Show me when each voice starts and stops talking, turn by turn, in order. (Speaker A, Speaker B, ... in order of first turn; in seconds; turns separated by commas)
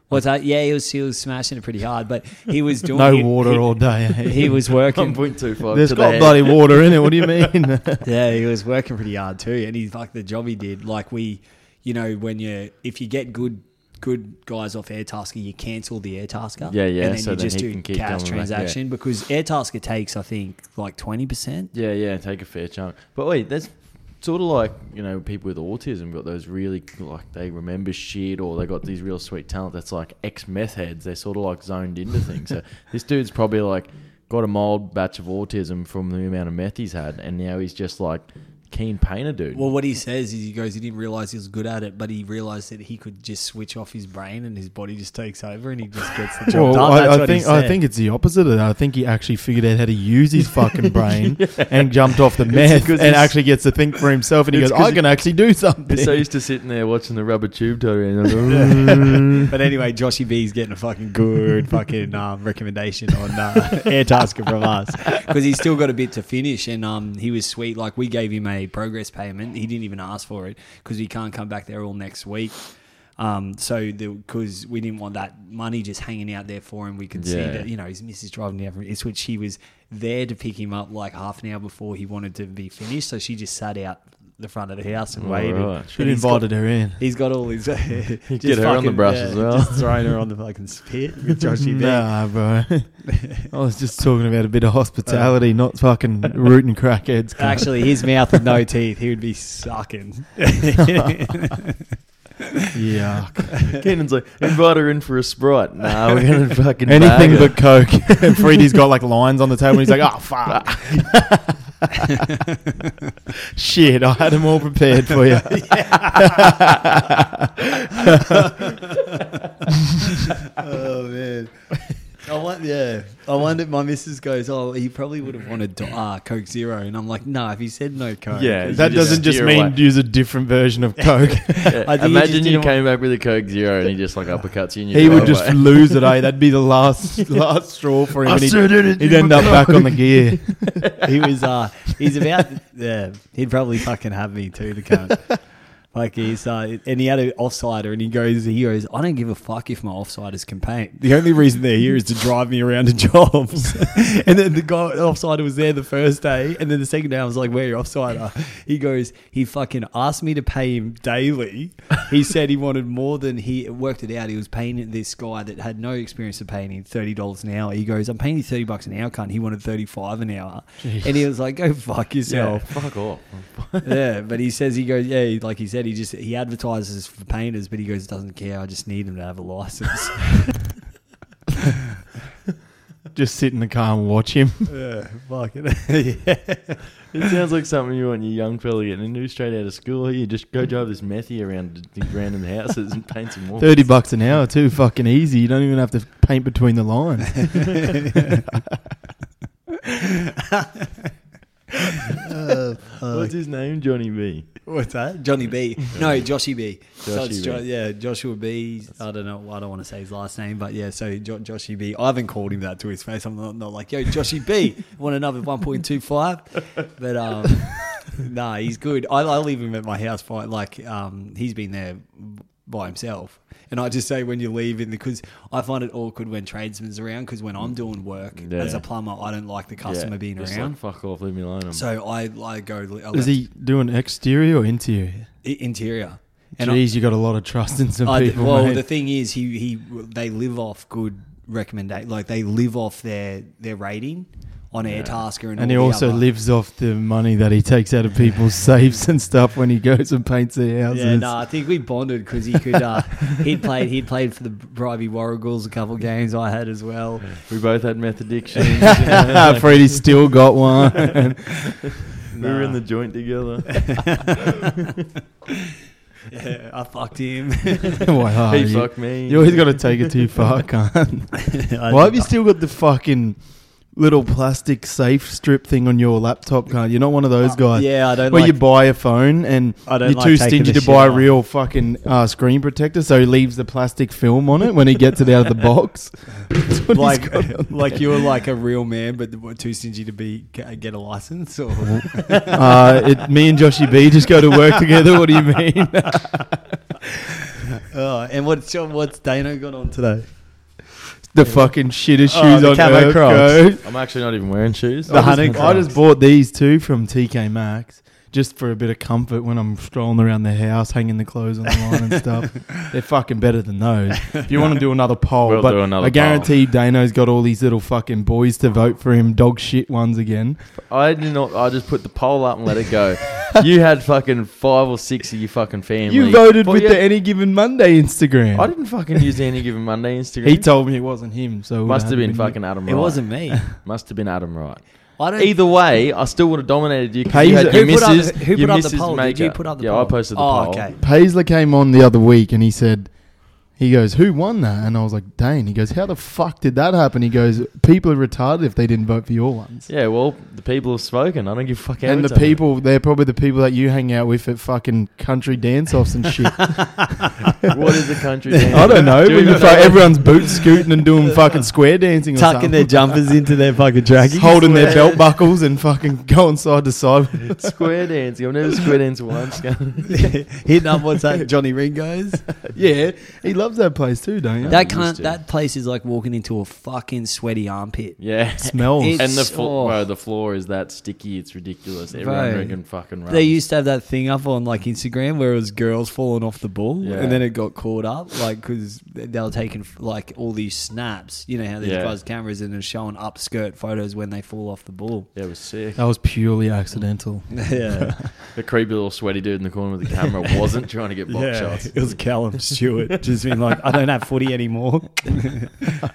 Speaker A: 0.1-5.2, Speaker B: 2.9-4.6, Speaker C: 4.8-7.4, Speaker B: 5.7-8.0, Speaker A: 8.0-21.7, Speaker C: 16.6-18.8, Speaker C: 21.7-39.7, Speaker A: 39.5-47.8, Speaker B: 46.5-56.1, Speaker C: 51.4-53.5, Speaker C: 54.5-55.3, Speaker C: 55.9-59.5, Speaker A: 58.5-92.1, Speaker C: 77.2-77.7, Speaker C: 85.2-85.9, Speaker B: 86.0-87.0, Speaker C: 88.3-90.1, Speaker B: 91.6-98.1, Speaker A: 95.1-95.4, Speaker A: 97.4-101.6, Speaker B: 102.7-103.5, Speaker C: 103.7-108.3, Speaker B: 106.9-111.7, Speaker B: 113.5-116.9, Speaker A: 115.6-116.6, Speaker A: 118.6-119.4, Speaker A: 120.5-129.3, Speaker C: 128.3-129.8, Speaker B: 128.7-131.7, Speaker A: 131.2-132.8, Speaker C: 131.7-136.1, Speaker B: 134.9-140.9, Speaker C: 138.2-140.9, Speaker A: 141.0-172.9, Speaker B: 170.8-171.1, Speaker C: 172.3-174.0, Speaker A: 173.8-180.6, Speaker B: 183.1-184.7, Speaker A: 184.7-187.0, Speaker C: 187.1-193.9, Speaker B: 193.6-198.1, Speaker A: 200.5-200.9, Speaker A: 202.1-203.3, Speaker C: 203.1-204.6, Speaker A: 204.7-230.8, Speaker C: 205.9-207.6, Speaker C: 228.4-228.9, Speaker C: 229.8-231.9, Speaker A: 231.7-233.3, Speaker B: 233.1-235.3, Speaker A: 235.4-236.8, Speaker B: 236.6-238.8, Speaker A: 238.1-246.2, Speaker C: 244.8-245.2, Speaker B: 245.6-251.6, Speaker A: 250.9-257.3, Speaker C: 257.3-260.0, Speaker A: 258.8-259.2, Speaker B: 259.1-261.6, Speaker C: 262.2-264.4, Speaker A: 262.4-262.8, Speaker A: 266.3-268.1, Speaker B: 268.0-288.2, Speaker C: 268.5-270.3, Speaker A: 271.5-272.3, Speaker A: 277.4-278.7, Speaker A: 279.9-281.3, Speaker A: 286.9-293.0, Speaker B: 291.9-296.6, Speaker A: 297.9-300.8, Speaker B: 301.3-303.8, Speaker A: 302.3-303.7, Speaker C: 303.8-306.0, Speaker A: 305.1-305.9, Speaker B: 305.1-320.6, Speaker C: 315.4-316.6, Speaker C: 320.8-327.0, Speaker B: 326.1-329.2, Speaker C: 328.5-330.9, Speaker B: 330.4-332.6, Speaker C: 331.8-340.9, Speaker A: 332.9-333.7, Speaker A: 335.2-335.5, Speaker B: 337.3-338.0, Speaker A: 337.6-341.0, Speaker B: 341.0-349.9, Speaker C: 349.9-352.6, Speaker B: 352.0-357.2, Speaker C: 357.7-360.6, Speaker A: 358.6-360.6, Speaker B: 358.7-363.3, Speaker A: 362.3-365.2, Speaker B: 364.3-367.8, Speaker C: 364.6-365.2, Speaker C: 367.5-370.4, Speaker A: 370.1-372.4, Speaker B: 372.7-374.8, Speaker C: 374.6-375.4, Speaker A: 374.7-378.2, Speaker C: 378.2-383.6, Speaker B: 378.6-379.2, Speaker A: 378.8-380.0, Speaker A: 382.1-395.3, Speaker C: 387.0-387.4, Speaker C: 391.8-392.2, Speaker C: 395.4-396.1, Speaker B: 396.0-398.3, Speaker A: 397.5-398.1, Speaker C: 398.4-402.7, Speaker A: 401.3-405.9